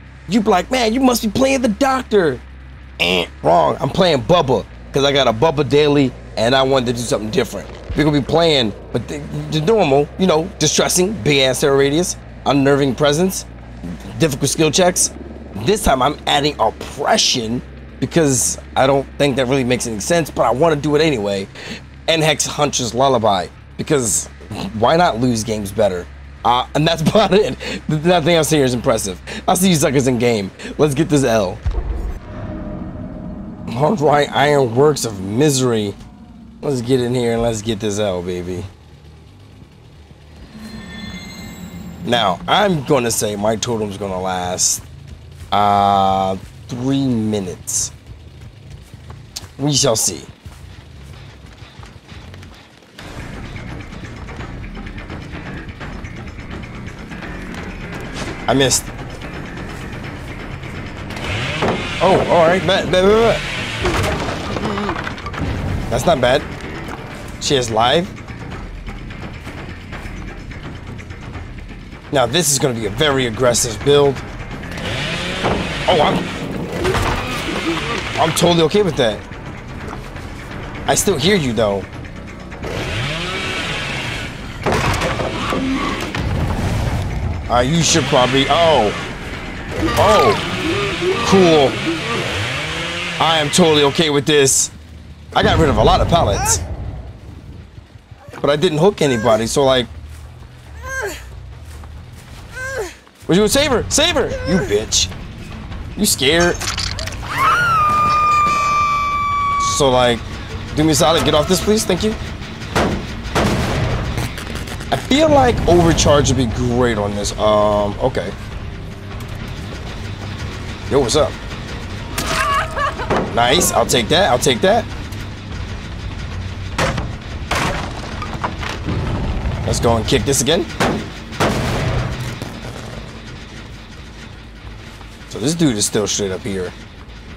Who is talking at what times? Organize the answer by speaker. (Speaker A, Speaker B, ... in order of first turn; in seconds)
Speaker A: 0.3-2.4, 3.0-13.5, 14.1-21.5, 22.1-31.6, 33.7-36.0, 36.6-38.7, 42.0-44.8, 45.5-47.9, 49.6-50.3, 58.5-58.9, 62.0-63.4, 65.9-66.5, 67.4-68.1, 72.1-74.2, 75.9-76.2, 78.2-79.2, 80.9-81.9, 87.5-89.0, 90.0-90.4, 91.2-91.8, 93.2-94.7, 95.3-96.6, 98.4-99.9, 103.3-105.1, 106.0-106.6, 109.6-112.2, 114.9-118.3, 120.9-121.3, 123.3-124.9, 129.7-130.7, 135.3-136.8